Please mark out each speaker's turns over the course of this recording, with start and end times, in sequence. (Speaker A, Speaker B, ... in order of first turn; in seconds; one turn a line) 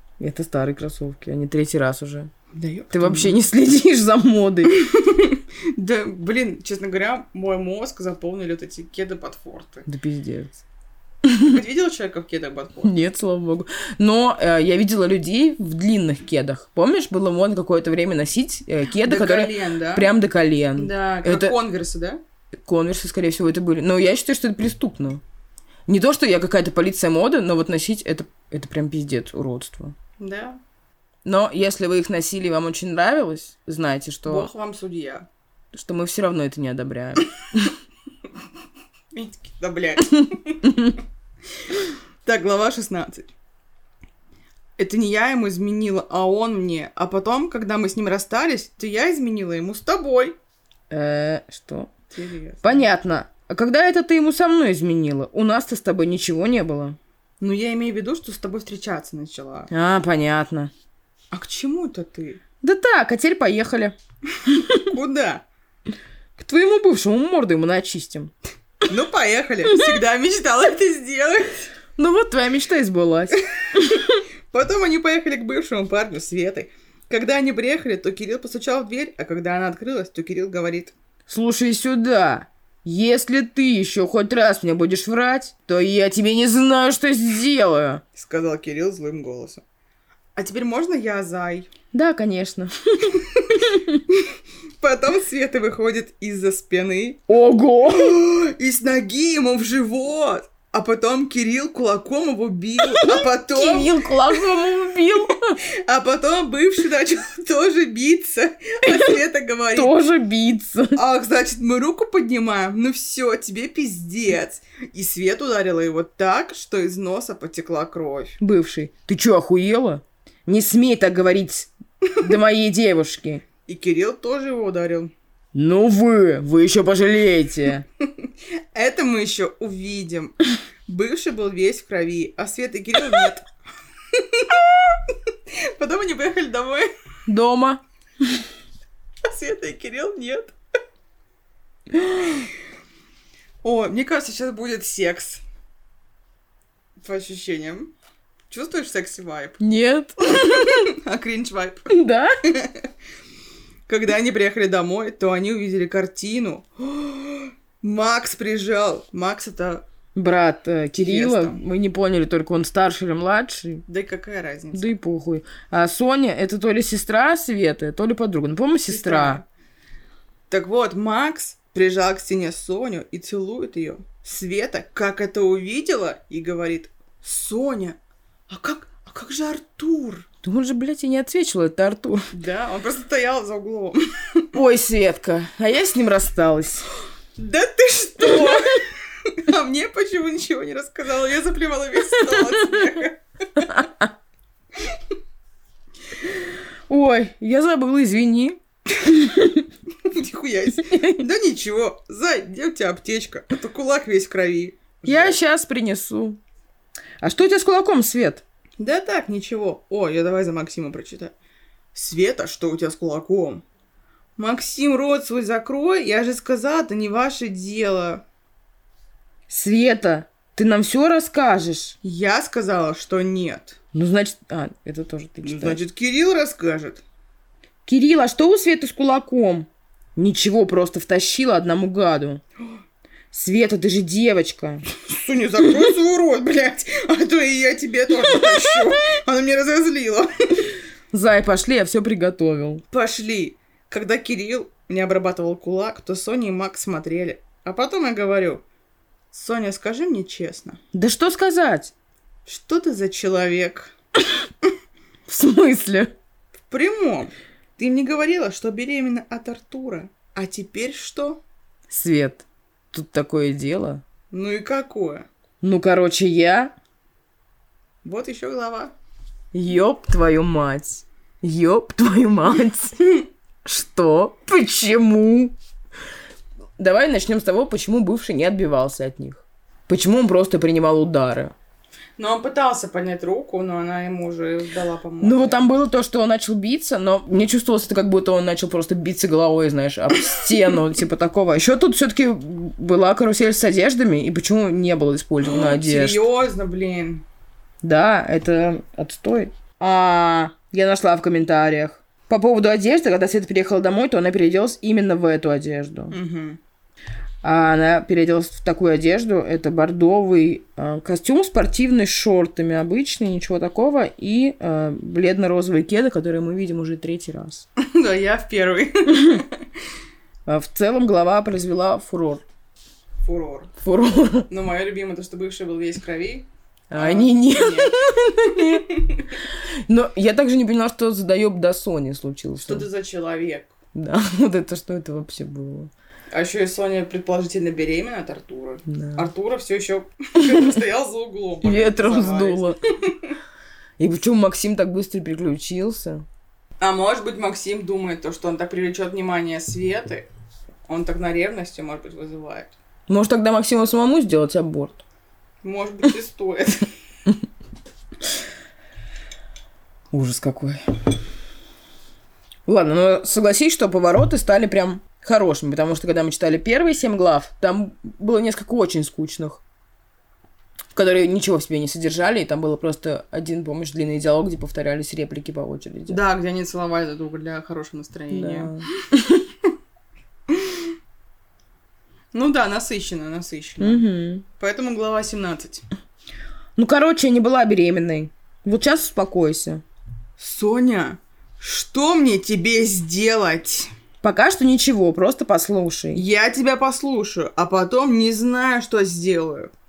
Speaker A: 0.2-2.3
Speaker B: 2.5-3.4
Speaker A: 2.9-4.8
Speaker B: 4.7-9.9
Speaker A: 9.9-10.6
Speaker A: 11.2-11.6
Speaker B: 11.4-12.9
Speaker A: 12.8-21.6
Speaker B: 18.9-20.1
Speaker B: 20.8-22.2
Speaker A: 22.6-25.2
Speaker A: 25.9-29.9
Speaker B: 30.2-30.6
Speaker A: 31.2-34.5
Speaker B: 34.2-35.3
Speaker A: 35.7-37.7
Speaker B: 39.1-40.8
Speaker B: 41.7-43.3
Speaker B: 44.8-50.4
Speaker A: 50.9-51.9
Speaker B: 52.1-52.9
Speaker A: 52.6-57.0
Speaker B: 57.4-59.7
Speaker A: 59.7-60.7
Speaker B: 61.3-62.4
Speaker A: 62.6-64.0
Speaker A: 64.5-64.8
Speaker B: 64.6-65.5
Speaker A: 66.4-68.3
Speaker B: 68.8-71.7
Speaker A: 72.0-74.1
Speaker B: 74.0-80.9
Speaker A: 81.3-88.0
Speaker B: 88.1-89.6
Speaker B: 90.4-91.7
Speaker A: 91.9-94.0
Speaker B: 93.4-94.3
Speaker B: 94.8-97.3
Speaker A: 97.3-98.2
Speaker B: 97.9-104.4
Speaker A: 102.9-105.6
Speaker B: 105.8-110.0
Speaker A: 109.8-111.0
Speaker B: 111.0-118.4
Speaker A: 118.4-123.4
Speaker B: 123.7-125.1
Speaker A: 125.5-127.8
Speaker B: 128.1-133.4
Speaker B: 134.1-136.9
Speaker A: 137.3-138.4
Speaker B: 139.3-140.5
Speaker A: 141.9-142.5
Speaker B: 143.6-145.4
Speaker B: 147.0-147.9
Speaker B: 148.5-149.6
Speaker A: 149.6-150.8
Speaker B: 150.3-152.0
Speaker A: 151.9-152.4
Speaker B: 152.5-152.9
Speaker B: 153.9-159.8
Speaker A: 160.2-163.8
Speaker B: 161.0-161.6
Speaker B: 163.9-164.9
Speaker A: 164.7-169.4
Speaker B: 168.9-169.4
Speaker B: 170.5-178.0
Speaker B: 178.5-180.3
Speaker A: 180.4-182.3
Speaker B: 182.3-184.5
Speaker A: 184.5-186.8
Speaker B: 187.4-193.8
Speaker A: 193.6-194.1
Speaker A: 196.9-199.7
Speaker B: 200.1-205.4
Speaker A: 200.8-201.2
Speaker A: 205.0-206.4
Speaker A: 207.2-208.4
Speaker B: 208.8-211.3
Speaker B: 211.9-213.6
Speaker B: 214.4-218.2
Speaker A: 219.5-222.0
Speaker B: 222.0-223.8
Speaker A: 223.9-225.8
Speaker B: 225.4-227.0
Speaker A: 227.9-232.4
Speaker A: 233.3-234.8
Speaker B: 234.9-240.3
Speaker A: 241.1-242.8
Speaker B: 242.9-248.6
Speaker B: 249.3-250.8
Speaker A: 250.9-251.9
Speaker B: 252.5-253.9
Speaker A: 255.3-256.1
Speaker B: 256.7-261.4
Speaker A: 261.9-264.0
Speaker B: 264.3-265.3
Speaker A: 265.6-266.7
Speaker B: 268.0-268.9
Speaker A: 269.5-273.1
Speaker A: 273.6-275.6
Speaker A: 276.8-281.5
Speaker B: 282.2-285.6
Speaker A: 285.2-296.2
Speaker B: 295.4-297.2
Speaker A: 297.8-306.2
Speaker B: 306.1-306.6
Speaker A: 307.4-317.7
Speaker B: 317.8-319.5
Speaker A: 320.5-322.4
Speaker B: 323.2-323.7
Speaker A: 323.8-324.5
Speaker B: 324.5-327.9
Speaker A: 326.9-328.9
Speaker A: 329.9-332.9
Speaker B: 332.6-333.7
Speaker A: 333.9-335.9
Speaker B: 336.3-343.3
Speaker A: 338.9-339.3
Speaker A: 340.4-340.8
Speaker A: 341.6-342.8
Speaker A: 344.0-346.2
Speaker B: 346.8-350.3
Speaker B: 350.9-352.7
Speaker A: 353.1-355.0
Speaker B: 355.6-356.7
Speaker A: 360.1-360.9
Speaker A: 362.7-369.6
Speaker A: 370.9-376.2
Speaker B: 376.1-378.8
Speaker A: 378.3-379.4
Speaker B: 380.5-380.9
Speaker B: 382.3-384.1
Speaker A: 383.8-384.4
Speaker B: 384.6-385.8
Speaker A: 386.8-389.8
Speaker B: 390.4-393.9
Speaker A: 394.2-396.2
Speaker B: 396.1-399.7